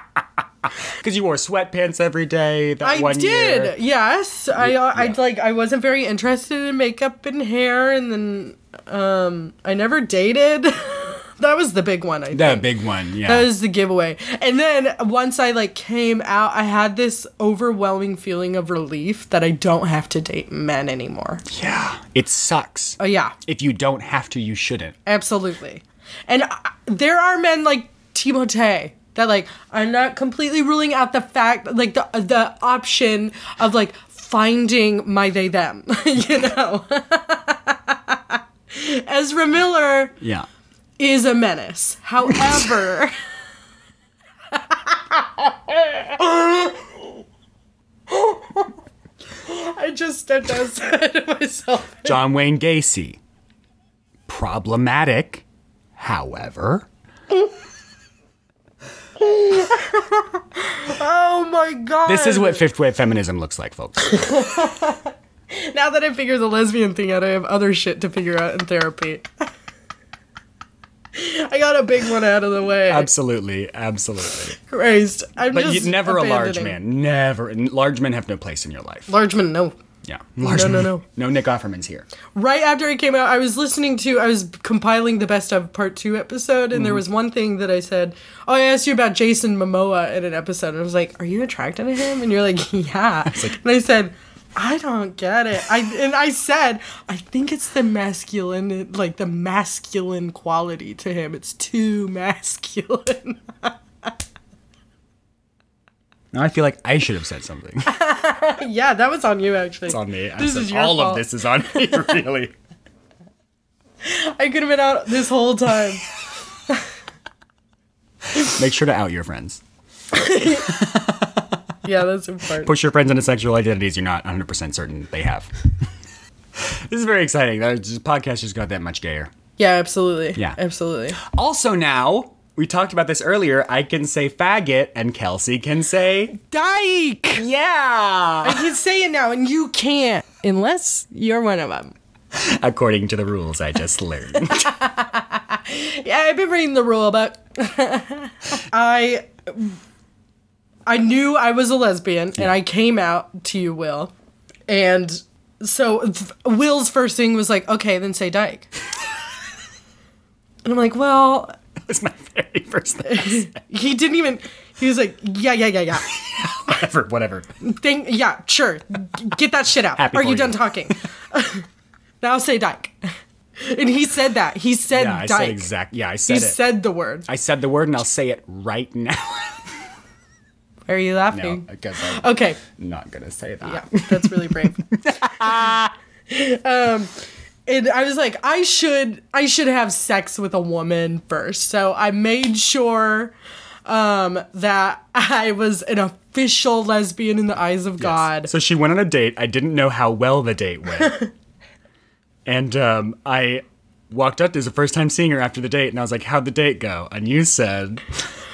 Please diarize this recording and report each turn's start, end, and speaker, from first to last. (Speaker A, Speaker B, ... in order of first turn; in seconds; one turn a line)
Speaker A: 0.8-3.7
Speaker B: 2.8-12.7
Speaker A: 4.5-5.2
Speaker A: 12.3-13.5
Speaker B: 13.2-21.4
Speaker A: 21.5-24.9
Speaker B: 23.0-23.3
Speaker B: 25.1-40.2
Speaker A: 40.2-40.5
Speaker B: 41.0-43.1
Speaker A: 42.3-42.6
Speaker B: 44.5-47.1
Speaker B: 48.1-48.7
Speaker B: 49.4-52.2
Speaker A: 52.0-53.2
Speaker A: 54.3-55.4
Speaker A: 56.0-56.9
Speaker B: 59.2-62.6
Speaker A: 62.0-64.7
Speaker B: 64.0-69.3
Speaker B: 71.1-73.1
Speaker A: 72.9-74.5
Speaker B: 74.5-76.8
Speaker A: 75.5-79.1
Speaker B: 79.1-79.7
Speaker A: 80.0-82.1
Speaker B: 80.4-81.0
Speaker B: 82.3-103.7
Speaker A: 86.7-87.0
Speaker A: 93.2-93.6
Speaker A: 106.3-107.9
Speaker B: 107.8-112.0
Speaker A: 109.9-112.5
Speaker B: 114.0-116.0
Speaker A: 118.3-119.6
Speaker B: 120.1-120.8
Speaker A: 120.5-121.6
Speaker B: 121.8-122.7
Speaker A: 122.6-125.5
Speaker A: 126.5-129.3
Speaker B: 129.6-131.2
Speaker A: 131.2-136.4
Speaker B: 136.4-137.5
Speaker A: 137.3-138.7
Speaker B: 138.4-141.9
Speaker A: 142.3-144.8
Speaker B: 144.5-149.8
Speaker B: 150.9-154.1
Speaker B: 154.7-158.7
Speaker B: 160.6-161.5
Speaker A: 161.8-163.6
Speaker B: 163.0-166.1
Speaker A: 166.1-167.5
Speaker B: 167.6-171.6
Speaker A: 169.9-170.6
Speaker B: 172.2-173.0
Speaker B: 173.6-175.7
Speaker A: 174.9-176.7
Speaker B: 176.3-177.2
Speaker A: 177.3-179.7
Speaker B: 180.9-182.6
Speaker A: 181.3-185.9
Speaker B: 183.6-184.8
Speaker B: 186.3-193.3
Speaker B: 193.8-198.5
Speaker A: 198.0-201.2
Speaker B: 201.0-201.3
Speaker A: 202.4-208.0